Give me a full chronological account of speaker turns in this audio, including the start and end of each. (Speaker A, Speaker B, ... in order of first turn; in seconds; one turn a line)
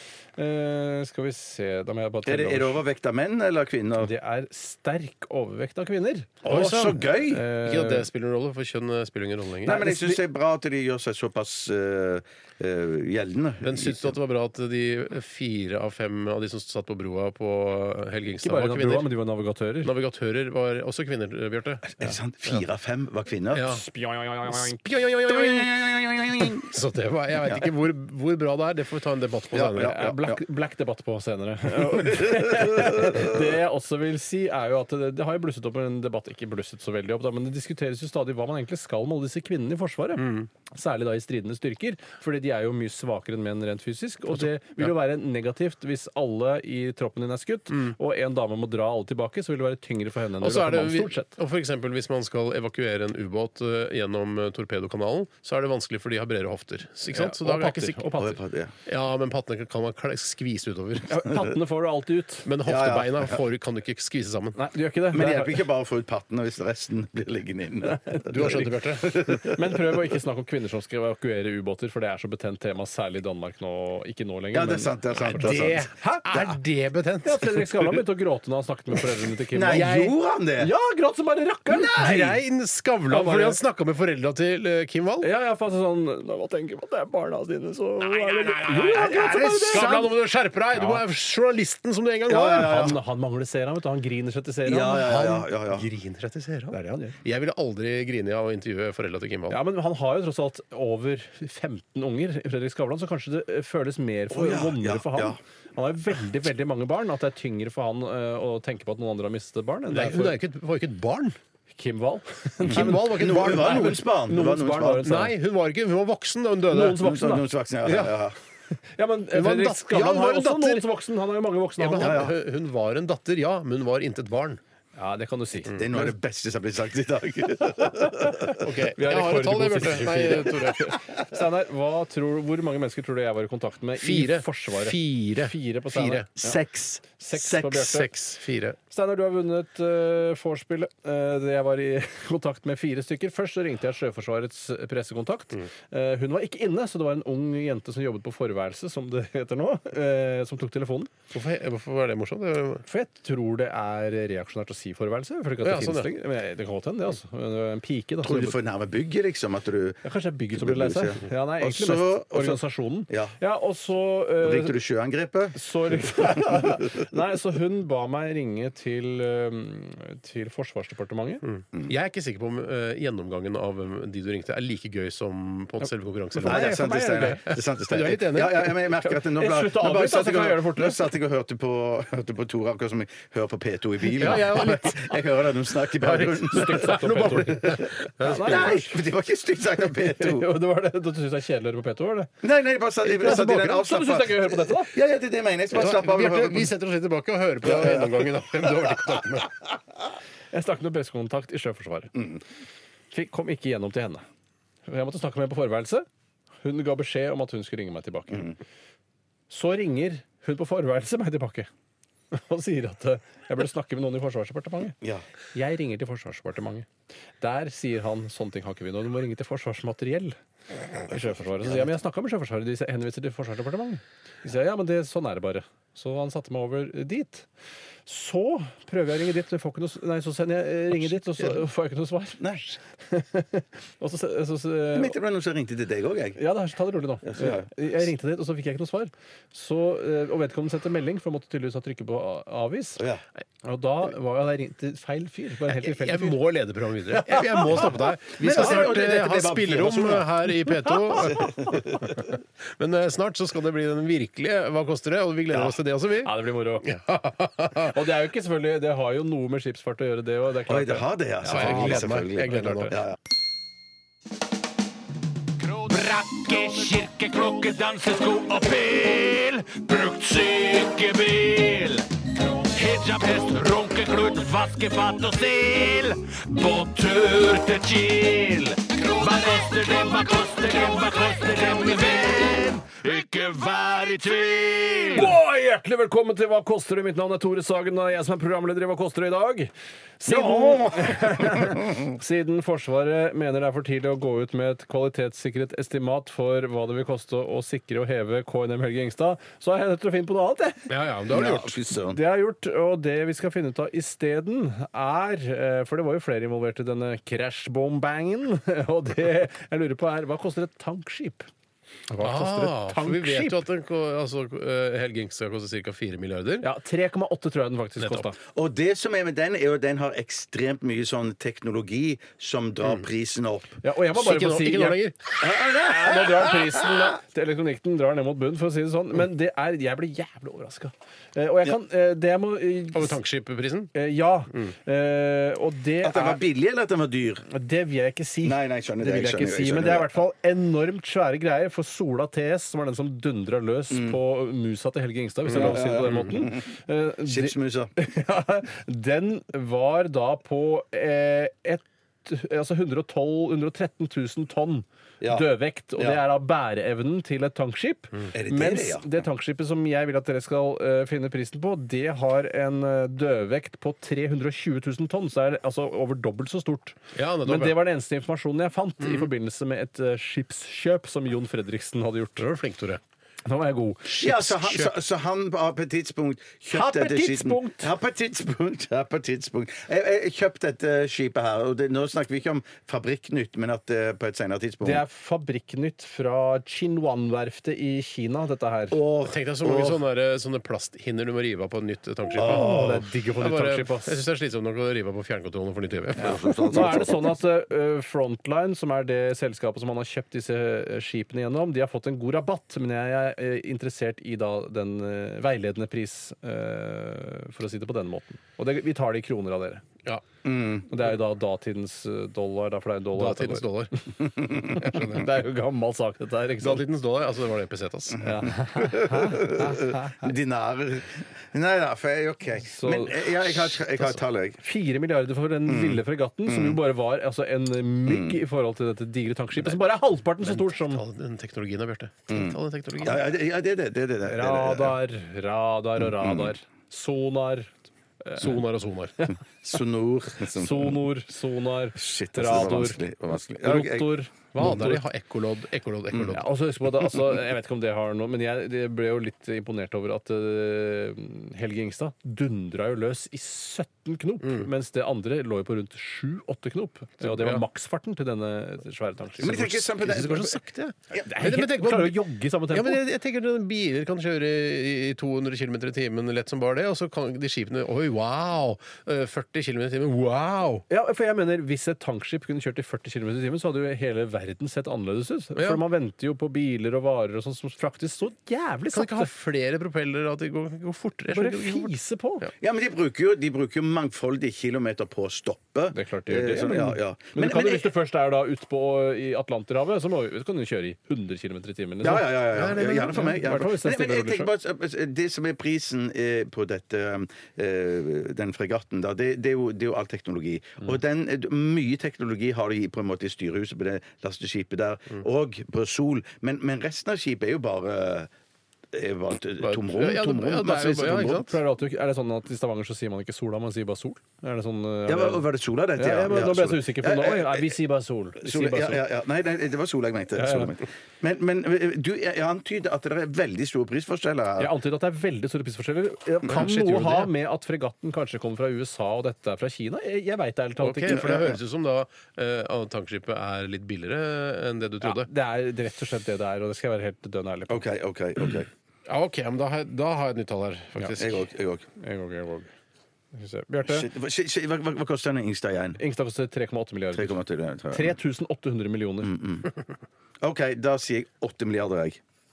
Speaker A: 0.4-2.8
Speaker B: 2.2-4.1
Speaker A: 4.0-6.4
Speaker C: 6.4-7.0
Speaker B: 6.4-7.4
Speaker A: 7.1-8.1
Speaker C: 7.6-9.8
Speaker B: 9.6-14.1
Speaker A: 9.7-10.2
Speaker C: 13.6-19.1
Speaker A: 18.4-19.9
Speaker C: 19.8-21.9
Speaker B: 22.0-23.7
Speaker C: 23.5-23.8
Speaker A: 23.6-24.8
Speaker C: 24.5-30.0
Speaker B: 25.2-26.7
Speaker B: 27.4-27.7
Speaker B: 29.5-30.4
Speaker A: 29.8-51.3
Speaker B: 32.0-32.9
Speaker C: 40.2-40.5
Speaker C: 44.3-44.9
Speaker C: 50.4-58.1
Speaker A: 57.1-58.4
Speaker B: 58.2-58.7
Speaker C: 58.9-61.1
Speaker A: 61.1-62.5
Speaker C: 62.4-64.6
Speaker B: 62.6-63.4
Speaker A: 64.5-65.6
Speaker B: 65.1-70.0
Speaker A: 67.8-76.2
Speaker C: 68.3-69.1
Speaker B: 74.5-76.6
Speaker C: 75.3-78.0
Speaker A: 77.2-80.0
Speaker B: 79.5-80.7
Speaker C: 79.7-80.1
Speaker A: 80.6-82.3
Speaker B: 81.7-82.4
Speaker C: 82.0-85.3
Speaker A: 83.1-83.6
Speaker A: 85.2-89.9
Speaker C: 88.0-92.9
Speaker B: 88.9-90.1
Speaker A: 90.7-91.0
Speaker B: 92.3-93.0
Speaker A: 92.3-95.1
Speaker B: 94.6-95.8
Speaker C: 95.0-99.6
Speaker A: 96.7-97.2
Speaker A: 99.5-110.4
Speaker B: 104.3-105.4
Speaker C: 109.9-111.4
Speaker A: 111.7-115.3
Speaker C: 112.6-114.0
Speaker B: 112.7-115.1
Speaker C: 115.0-117.1
Speaker A: 116.7-118.1
Speaker B: 117.0-118.3
Speaker A: 118.9-122.2
Speaker C: 119.3-120.9
Speaker C: 121.8-124.6
Speaker B: 122.0-122.3
Speaker A: 125.0-125.7
Speaker C: 125.7-126.0
Speaker B: 125.7-128.6
Speaker A: 128.4-136.6
Speaker C: 128.5-130.9
Speaker C: 134.0-136.3
Speaker B: 136.3-137.9
Speaker A: 137.2-138.1
Speaker C: 137.7-138.8
Speaker A: 138.9-151.1
Speaker C: 151.3-152.8
Speaker A: 152.8-158.6
Speaker C: 155.6-156.1
Speaker B: 158.2-163.3
Speaker A: 160.0-164.8
Speaker B: 164.4-166.9
Speaker A: 165.5-171.4
Speaker C: 171.4-178.8
Speaker B: 176.3-190.5
Speaker A: 176.4-177.4
Speaker A: 179.0-181.1
Speaker C: 184.1-185.1
Speaker C: 185.9-188.7
Speaker A: 186.4-189.0
Speaker A: 189.8-192.3
Speaker B: 192.4-196.7
Speaker A: 193.0-194.9
Speaker C: 195.7-199.6
Speaker B: 197.6-198.9
Speaker A: 200.5-202.1
Speaker B: 202.1-202.4
Speaker A: 203.1-204.2
Speaker A: 204.9-206.1
Speaker A: 206.6-208.6
Speaker A: 209.5-211.7
Speaker A: 212.3-215.0
Speaker A: 215.5-216.9
Speaker A: 217.4-220.3
Speaker A: 221.0-227.5
Speaker A: 228.1-235.2
Speaker B: 234.9-236.4
Speaker A: 236.4-243.0
Speaker B: 237.2-237.9
Speaker B: 243.0-243.2
Speaker A: 243.6-246.4
Speaker C: 245.7-257.9
Speaker A: 247.1-247.9
Speaker B: 248.4-250.3
Speaker A: 248.5-248.9
Speaker B: 251.2-252.0
Speaker A: 256.2-256.9
Speaker A: 257.8-263.0
Speaker B: 260.7-263.1
Speaker C: 261.5-263.0
Speaker D: 265.7-272.0
Speaker D: 272.7-285.1
Speaker A: 285.1-301.5
Speaker B: 290.6-292.0
Speaker C: 300.9-301.8
Speaker B: 301.3-302.2
Speaker A: 302.1-311.5
Speaker A: 312.1-313.6
Speaker C: 312.2-316.6
Speaker A: 316.6-318.4
Speaker C: 318.0-318.2
Speaker B: 318.4-323.8
Speaker A: 323.8-333.2
Speaker C: 324.1-325.3
Speaker B: 325.4-327.1
Speaker C: 332.9-333.9
Speaker A: 333.9-336.4
Speaker B: 336.0-337.4
Speaker A: 337.5-372.5
Speaker B: 338.4-340.1
Speaker B: 343.9-344.2
Speaker B: 345.5-346.6
Speaker C: 345.5-346.3
Speaker B: 347.2-347.9
Speaker B: 355.2-356.2
Speaker B: 358.3-359.2
Speaker C: 367.1-367.8
Speaker C: 372.4-373.0
Speaker A: 373.4-374.3
Speaker B: 374.1-385.0
Speaker C: 374.2-374.9
Speaker A: 376.7-377.9
Speaker A: 384.8-389.0
Speaker B: 388.9-390.0
Speaker C: 389.2-396.9
Speaker A: 392.3-394.2
Speaker B: 392.4-392.9
Speaker B: 396.1-397.3
Speaker A: 396.2-409.8
Speaker B: 410.4-410.9
Speaker A: 410.9-413.7
Speaker C: 413.1-413.9
Speaker B: 414.4-414.7
Speaker A: 414.6-416.8
Speaker C: 414.7-415.3
Speaker C: 416.6-418.2
Speaker A: 418.2-420.3
Speaker B: 418.7-424.6
Speaker A: 422.6-423.4
Speaker A: 424.6-431.0
Speaker B: 425.7-426.8
Speaker B: 428.1-428.4
Speaker C: 430.4-433.2
Speaker B: 432.3-435.0
Speaker A: 434.2-438.6
Speaker B: 436.0-436.5
Speaker C: 438.4-439.2
Speaker B: 439.6-441.0
Speaker A: 440.4-445.0
Speaker B: 441.9-444.1
Speaker C: 442.5-442.8
Speaker C: 444.5-446.5
Speaker A: 446.3-460.2
Speaker C: 454.4-454.7
Speaker C: 457.2-457.6
Speaker C: 459.4-470.8
Speaker B: 459.4-460.6
Speaker A: 461.2-463.0
Speaker A: 470.9-479.3
Speaker C: 475.6-475.8
Speaker C: 478.9-481.9
Speaker A: 481.3-482.5
Speaker B: 482.6-487.9
Speaker A: 485.9-494.5
Speaker B: 492.0-508.3
Speaker C: 492.6-493.2
Speaker B: 508.9-511.5
Speaker C: 509.6-511.5
Speaker A: 511.2-515.4
Speaker B: 515.0-517.7
Speaker A: 516.0-519.0
Speaker B: 518.4-524.7
Speaker A: 520.4-520.7
Speaker A: 524.6-531.5
Speaker C: 526.4-527.3
Speaker C: 530.8-535.3
Speaker B: 531.1-531.5
Speaker A: 535.0-537.8
Speaker B: 537.7-538.7
Speaker C: 539.1-541.4
Speaker B: 541.0-541.8
Speaker A: 542.0-542.7
Speaker A: 543.3-544.1
Speaker B: 543.9-546.0
Speaker A: 546.0-549.3
Speaker B: 547.1-548.1
Speaker B: 549.2-549.7
Speaker B: 550.4-552.2